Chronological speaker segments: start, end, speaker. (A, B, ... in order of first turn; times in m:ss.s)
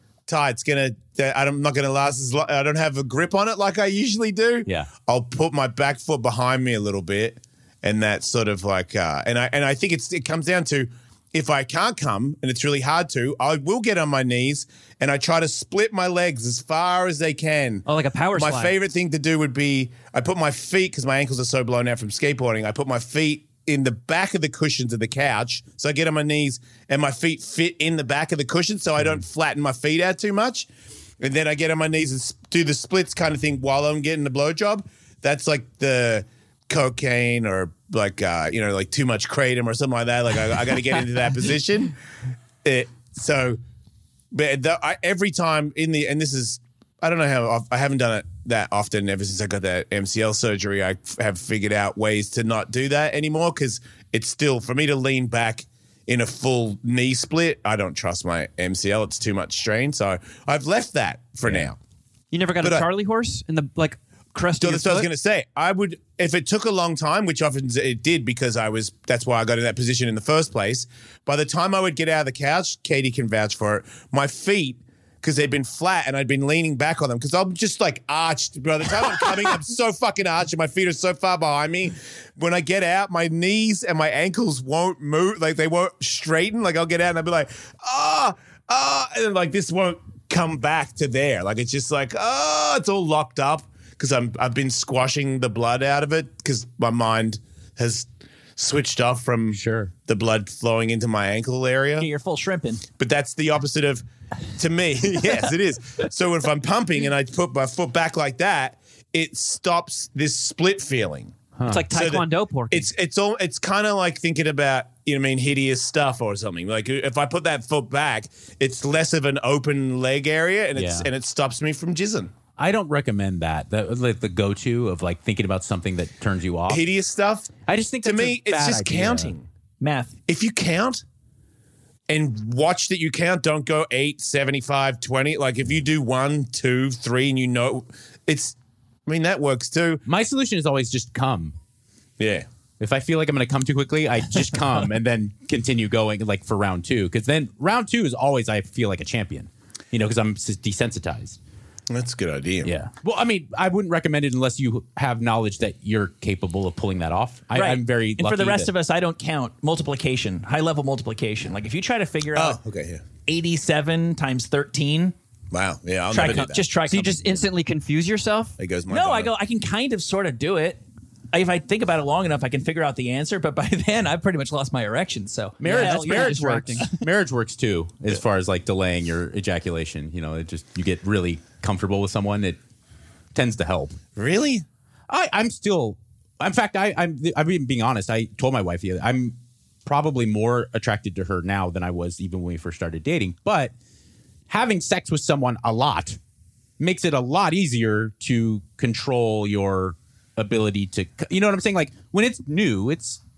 0:00.3-0:30.7 A
0:04.6-0:04.9 B
0:17.8-0:18.7 C
0:31.2-0:41.9 A
0:42.6-0:43.6 A
0:44.3-1:01.8 A
1:01.4-1:01.7 B
1:02.3-1:05.1 C
1:02.6-1:02.8 A
1:04.6-1:42.1 A
1:39.5-1:39.9 B
1:42.0-1:42.8 D
1:42.9-1:51.4 A
1:51.5-1:51.9 B
1:51.7-1:52.9 C
1:51.9-2:02.3 A
2:00.7-2:01.1 B
2:02.6-2:06.8 B
2:06.7-2:07.5 A
2:07.6-2:09.3 B
2:08.0-2:09.5 A
2:09.8-2:10.1 D
2:10.3-2:11.0 A
2:12.1-2:18.5 A
2:19.0-2:20.0 A
2:20.0-2:21.5 B
2:22.2-2:22.4 A
2:22.8-2:31.4 B
2:31.9-2:32.7 A
2:32.6-2:38.7 B
2:37.5-2:42.6 D
2:42.3-2:43.0 A
2:43.2-2:45.1 D
2:45.5-2:46.6 A
2:46.1-2:47.4 D
2:46.9-2:48.6 C
2:48.6-2:49.3 A
2:48.9-2:57.0 D
2:55.6-3:02.6 B
2:55.7-2:56.9 C
3:03.3-3:04.0 B
3:04.2-3:04.6 A
3:05.1-3:13.7 B
3:14.5-3:16.2 B
3:16.8-3:23.2 B